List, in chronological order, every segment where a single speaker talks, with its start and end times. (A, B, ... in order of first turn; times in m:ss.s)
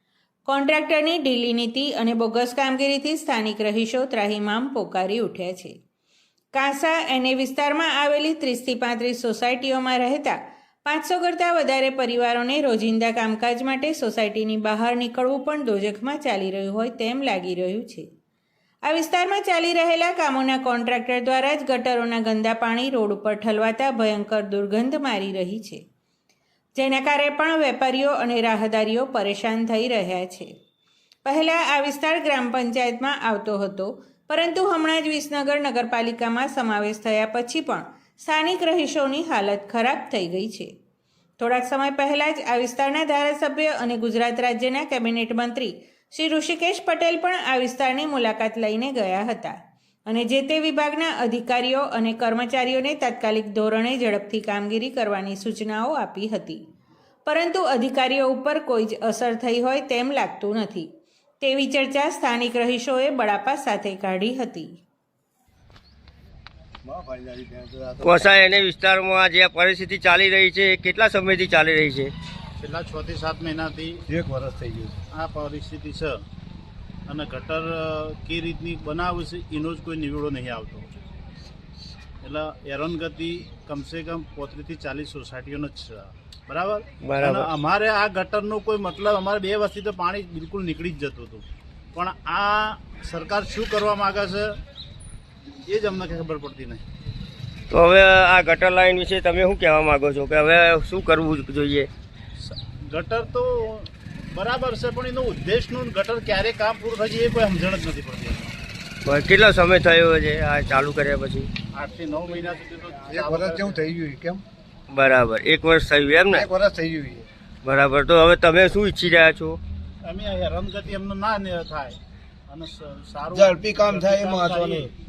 0:00.4-0:05.8 A
0:06.5-0:18.1 A
0:18.8-0:25.8 A
0:26.7-0:30.5 A
0:31.2-0:40.7 A
0:41.4-0:56.6 A
0:57.2-1:00.9 A
1:01.4-1:04.8 A
1:06.8-1:08.2 B
1:08.0-1:12.1 C
1:12.6-1:14.0 D
1:14.1-1:15.0 B
1:15.1-1:16.2 D
1:17.0-1:20.9 D
1:22.2-1:34.5 D
1:27.0-1:27.5 C
1:35.6-1:36.8 D
1:37.7-1:41.9 C
1:42.4-1:48.6 D
1:49.0-1:51.5 C
1:51.7-1:53.8 D
1:53.1-1:54.4 B
1:54.9-1:56.5 C
1:56.3-1:57.3 B
1:57.6-1:59.6 C
2:00.0-2:02.0 D
2:02.5-2:04.9 D
2:03.3-2:04.9 B